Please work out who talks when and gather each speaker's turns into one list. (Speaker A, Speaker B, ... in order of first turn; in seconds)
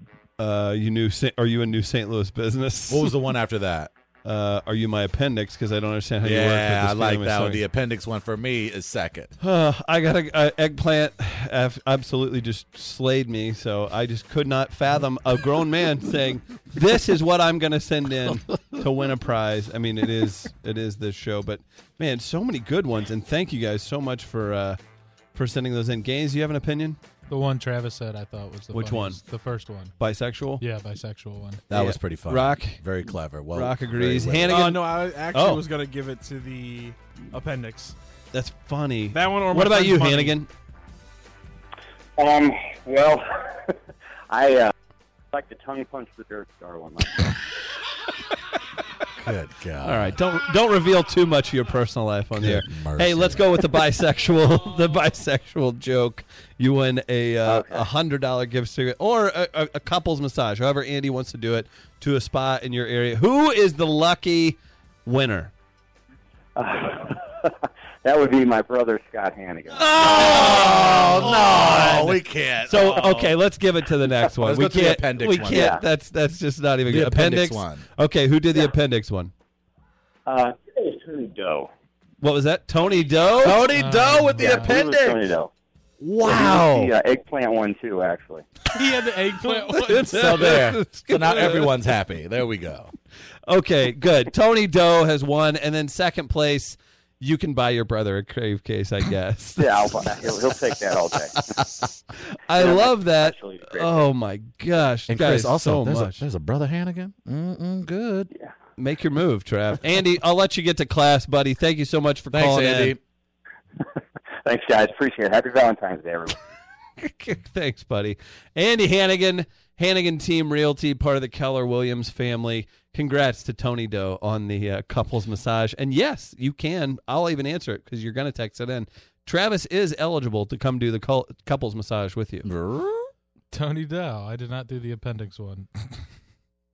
Speaker A: 0.4-3.1, 4.2-7.6, 9.4-24.8, 25.3-27.0, 28.7-29.2, 30.0-30.6, 31.7-32.8, 33.5-35.6, 38.3-40.5, 49.8-65.5, 70.1-79.3, 82.2-83.6, 89.4-91.7, 93.5-100.0, 102.5-106.2, 108.8-113.0, 117.0-132.5
Speaker B: 2.9-3.9, 6.2-9.3, 31.7-34.6, 49.2-50.2, 52.4-53.4, 69.7-73.3, 74.3-75.8, 76.8-77.8, 83.4-85.2, 86.0-86.9, 90.1-92.9, 105.1-108.3, 112.3-113.0, 132.4-133.1
Speaker C: 27.3-29.9, 30.6-31.6, 83.7-84.7, 88.7-90.1, 133.5-135.9
Speaker D: 34.5-38.0, 39.1-40.4
Speaker E: 42.2-43.8, 44.3-44.7, 45.3-47.3, 57.4-57.9, 66.5-70.4, 75.4-75.8, 80.2-81.7, 84.3-85.5, 86.2-88.4, 99.6-101.5, 102.5-104.1, 114.4-116.3